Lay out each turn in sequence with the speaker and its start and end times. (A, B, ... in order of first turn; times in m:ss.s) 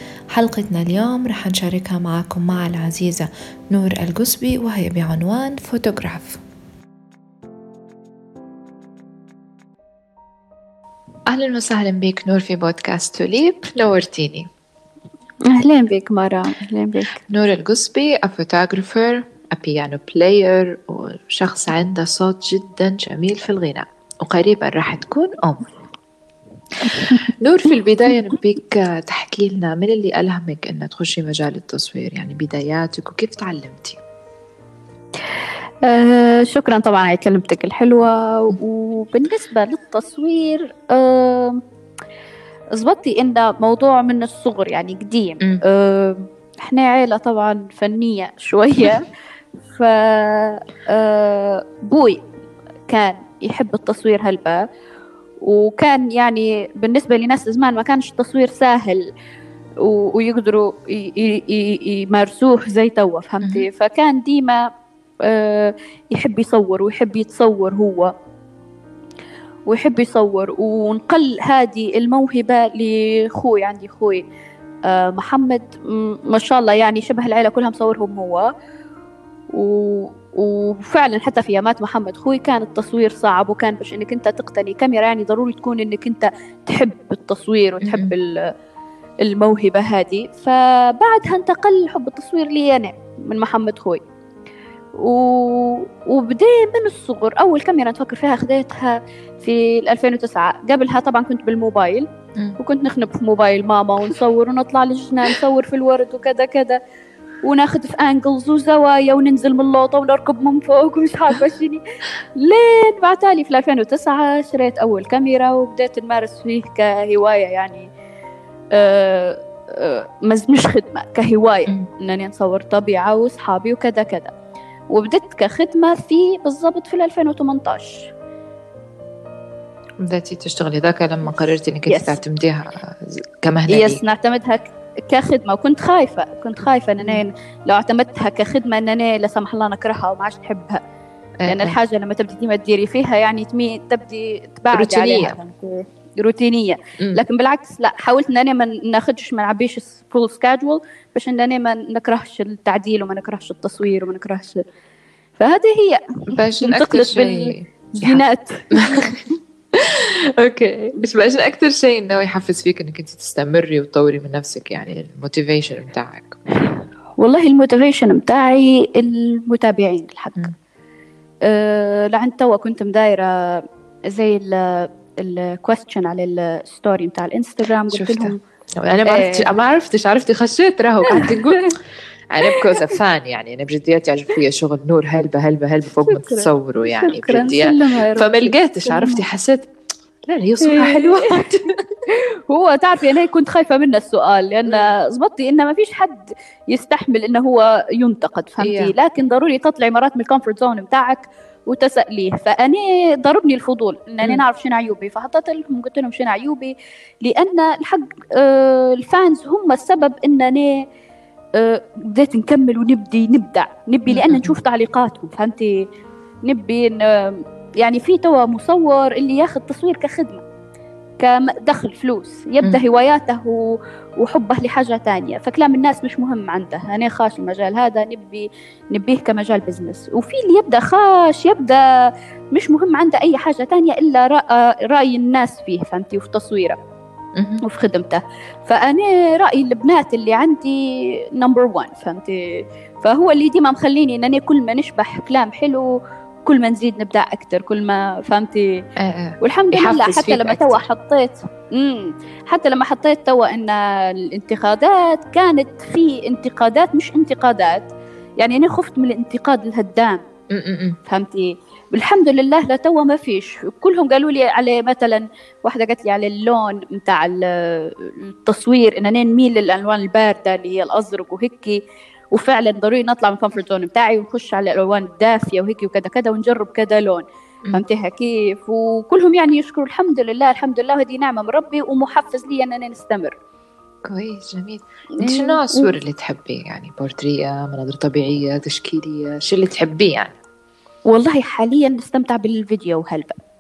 0:00.3-0:06.4 A
0:11.3-0:14.5 A
0:15.4-0:17.2 B
0:17.2-0:25.6 A
0:26.8-0:34.0 A
0:26.9-0:27.2 B
0:35.8-0:41.6 B
0:42.8-0:49.1 B
0:49.7-0:52.2 B
0:52.9-0:54.6 B
0:55.4-0:59.1 B
0:59.8-1:04.6 B
1:03.4-1:03.7 A
1:05.2-1:08.1 B
1:09.7-1:14.2 B
1:14.9-1:18.5 B
1:19.5-1:28.5 B
1:27.8-1:28.1 A
1:29.2-1:34.0 B
1:35.0-1:42.1 B
1:42.6-1:46.8 B
1:47.4-1:51.8 B
1:52.4-1:57.9 B
1:58.7-2:04.3 B
2:04.9-2:08.1 B
2:10.0-2:14.0 A
2:11.9-2:12.2 B
2:13.7-2:20.8 B
2:21.4-2:21.8 A
2:21.5-2:34.6 B
2:24.7-2:25.4 A
2:35.4-2:39.2 B
2:36.3-2:38.2 A
2:38.7-2:39.2 A
2:39.7-2:46.4 A
2:47.2-2:50.5 B
2:51.4-2:58.4 B
2:57.9-3:01.7 A
2:59.1-2:59.5 B
3:01.1-3:01.8 B
3:02.3-3:09.7 A
3:02.4-3:02.9 B
3:06.0-3:09.2 B
3:10.3-3:12.0 A
3:10.6-3:11.5 B
3:12.1-3:30.8 B
3:18.6-3:18.9 A
3:31.6-3:35.9 B
3:34.1-3:34.5 A
3:36.4-3:40.4 B
3:41.2-3:51.8 B
3:52.5-3:56.8 B
3:57.4-3:57.6 A
3:57.6-4:00.8 B
4:01.4-4:05.9 B
4:06.4-4:08.8 B
4:09.0-4:10.8 A
4:09.4-4:20.2 B
4:20.5-4:21.0 A
4:21.1-4:31.8 B
4:32.3-4:43.4 B
4:44.0-4:50.3 A
4:45.2-4:45.9 B
4:51.1-4:53.4 B